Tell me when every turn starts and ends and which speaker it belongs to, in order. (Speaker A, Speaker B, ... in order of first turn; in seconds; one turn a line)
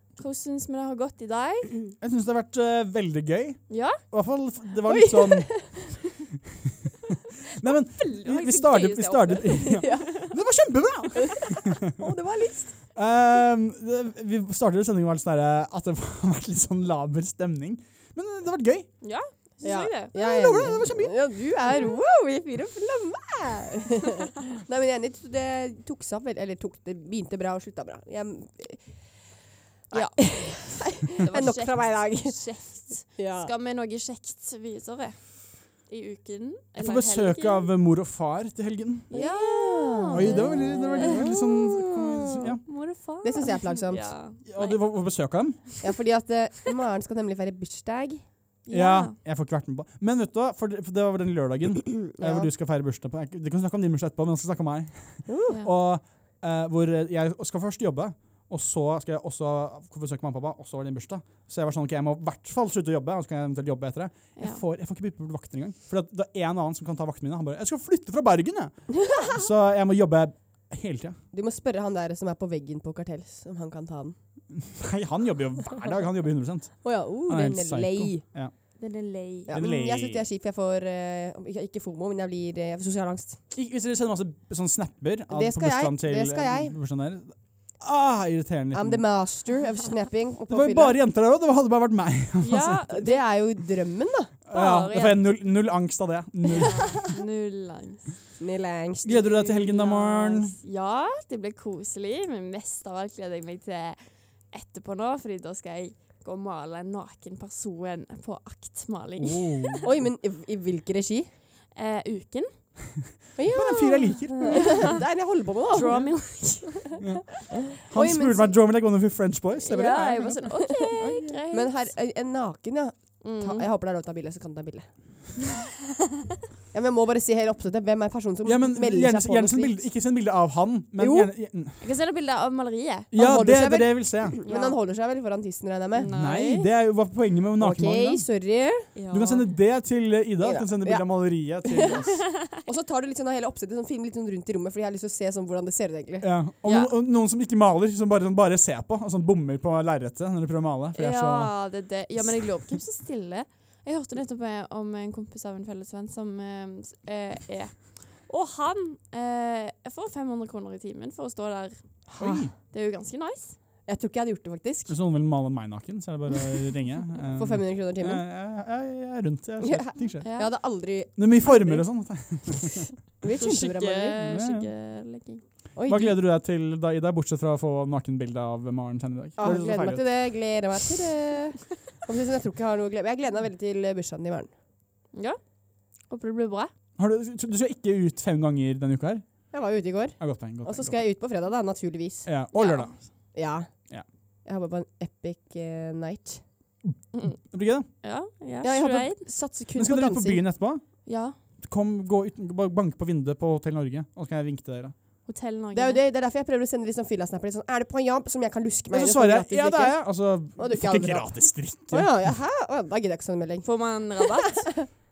Speaker A: 0.1-1.8
Speaker B: 2.0-5.8
Speaker A: 3.7-4.0
Speaker C: 4.8-5.9
Speaker B: 7.5-11.8
Speaker A: 7.9-10.3
Speaker C: 9.8-10.2
Speaker C: 11.8-12.8
Speaker B: 12.9-18.9
Speaker A: 19.0-20.1
Speaker C: 19.6-28.9
Speaker B: 20.1-21.2
Speaker C: 29.9-32.4
Speaker A: 29.9-37.7
Speaker C: 33.1-33.5
Speaker B: 36.8-39.1
Speaker A: 39.1-41.0
Speaker C: 39.1-42.5
Speaker B: 40.1-42.6
Speaker A: 42.6-44.9
Speaker C: 43.2-44.1
Speaker B: 44.5-45.6
Speaker C: 45.8-48.2
Speaker A: 48.6-49.1
Speaker B: 48.7-71.2
Speaker C: 52.0-52.5
Speaker C: 55.3-55.6
Speaker A: 64.3-64.6
Speaker C: 69.1-69.4
Speaker C: 71.3-74.2
Speaker B: 74.6-78.5
Speaker C: 76.8-78.2
Speaker A: 78.8-79.5
Speaker B: 79.5-80.2
Speaker C: 79.5-83.4
Speaker B: 83.5-89.0
Speaker C: 85.3-86.7
Speaker C: 88.7-91.0
Speaker B: 90.5-92.9
Speaker A: 92.4-93.2
Speaker C: 92.9-94.3
Speaker B: 94.5-97.1
Speaker A: 94.5-95.3
Speaker A: 96.6-98.1
Speaker C: 98.4-99.2
Speaker B: 99.0-100.5
Speaker A: 99.1-109.9
Speaker B: 109.2-109.9
Speaker C: 109.8-111.3
Speaker A: 111.7-112.5
Speaker C: 113.4-116.0
Speaker B: 113.5-115.0
Speaker A: 114.5-114.9
Speaker A: 115.7-117.0
Speaker B: 117.0-120.6
Speaker C: 117.5-118.6
Speaker A: 119.6-121.9
Speaker C: 120.9-124.9
Speaker A: 123.2-123.7
Speaker C: 126.7-129.8
Speaker B: 128.4-131.8
Speaker C: 131.0-131.3
Speaker A: 131.8-133.1
Speaker B: 133.1-134.4
Speaker C: 133.1-136.1
Speaker A: 134.4-134.8
Speaker A: 135.9-136.7
Speaker B: 136.1-138.2
Speaker C: 137.6-138.9
Speaker A: 138.9-139.5
Speaker B: 139.1-142.2
Speaker C: 140.4-141.1
Speaker C: 141.6-142.0
Speaker C: 142.6-146.3
Speaker B: 146.2-151.5
Speaker A: 146.6-146.9
Speaker A: 150.9-163.6
Speaker C: 162.1-162.5
Speaker B: 162.2-162.5
Speaker C: 163.8-164.9
Speaker B: 164.9-170.2
Speaker C: 167.3-168.2
Speaker C: 169.6-171.9
Speaker A: 170.2-170.5
Speaker B: 171.2-172.9
Speaker C: 173.2-174.2
Speaker A: 173.3-175.4
Speaker B: 174.2-174.7
Speaker C: 175.8-176.2
Speaker B: 175.9-180.1
Speaker C: 179.4-184.5
Speaker A: 185.1-185.4
Speaker A: 186.1-186.7
Speaker B: 187.0-189.5
Speaker C: 189.5-192.3
Speaker B: 190.2-191.0
Speaker B: 192.2-193.1
Speaker A: 192.5-193.0
Speaker C: 193.3-193.8
Speaker C: 194.4-196.4
Speaker B: 197.2-197.9
Speaker A: 198.0-199.2
Speaker C: 198.6-200.4
Speaker B: 199.7-200.8
Speaker A: 201.1-201.3
Speaker B: 201.6-204.9
Speaker A: 205.2-206.0
Speaker C: 205.7-213.7
Speaker B: 208.9-212.3
Speaker A: 213.6-214.6
Speaker C: 214.2-214.8